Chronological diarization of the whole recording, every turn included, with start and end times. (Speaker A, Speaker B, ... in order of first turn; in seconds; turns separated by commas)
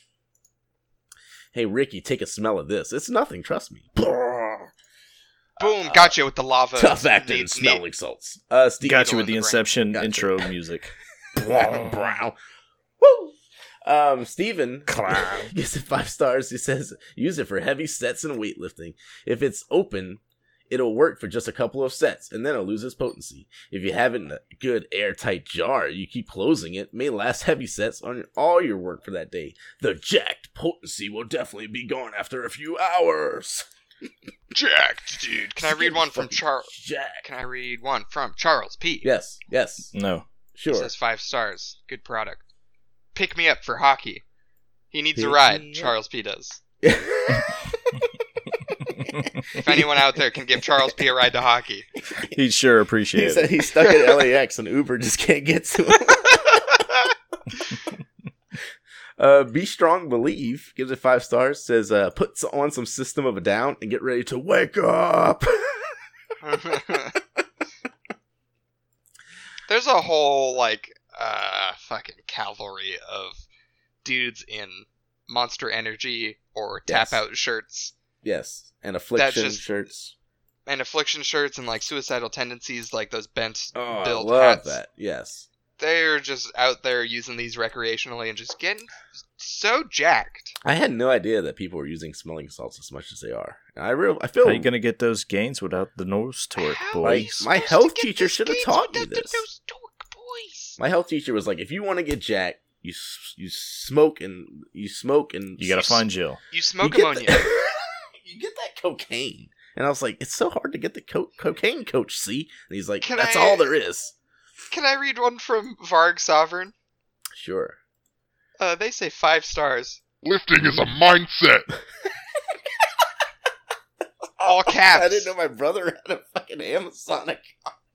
Speaker A: 1.5-4.7, Speaker B: 5.6-7.8, Speaker A: 5.6-6.2, Speaker A: 6.8-9.1, Speaker C: 8.8-10.9, Speaker B: 8.9-9.7, Speaker A: 9.9-10.5, Speaker A: 11.3-12.3, Speaker A: 13.0-33.7, Speaker C: 14.9-15.5, Speaker B: 34.5-39.0, Speaker A: 35.5-37.2, Speaker A: 39.0-39.9, Speaker C: 39.9-40.2, Speaker A: 40.5-40.9, Speaker B: 40.7-42.4, Speaker B: 43.1-44.2, Speaker B: 44.9-46.6, Speaker A: 45.1-45.9, Speaker A: 46.8-47.6, Speaker A: 49.0-50.0, Speaker C: 49.1-49.4, Speaker B: 49.5-51.9, Speaker A: 52.1-52.4, Speaker C: 52.3-53.5, Speaker A: 53.1-56.8, Speaker B: 53.8-54.2, Speaker B: 56.1-56.4, Speaker A: 59.2-65.9, Speaker B: 66.4-67.2, Speaker B: 69.7-73.4, Speaker B: 74.0-77.9, Speaker A: 76.9-77.2, Speaker A: 78.2-80.1, Speaker B: 79.2-79.6, Speaker B: 80.7-84.8, Speaker A: 83.7-85.5, Speaker B: 85.8-90.5, Speaker A: 90.6-94.7, Speaker C: 94.4-97.4, Speaker B: 96.6-100.8, Speaker A: 97.0-99.4, Speaker A: 100.8-106.0, Speaker C: 105.6-106.4, Speaker B: 106.5-107.5, Speaker A: 106.8-114.1, Speaker B: 113.0-113.7, Speaker B: 114.7-116.7, Speaker A: 117.4-117.8, Speaker B: 118.6-121.1, Speaker B: 124.4-125.3, Speaker A: 124.4-127.7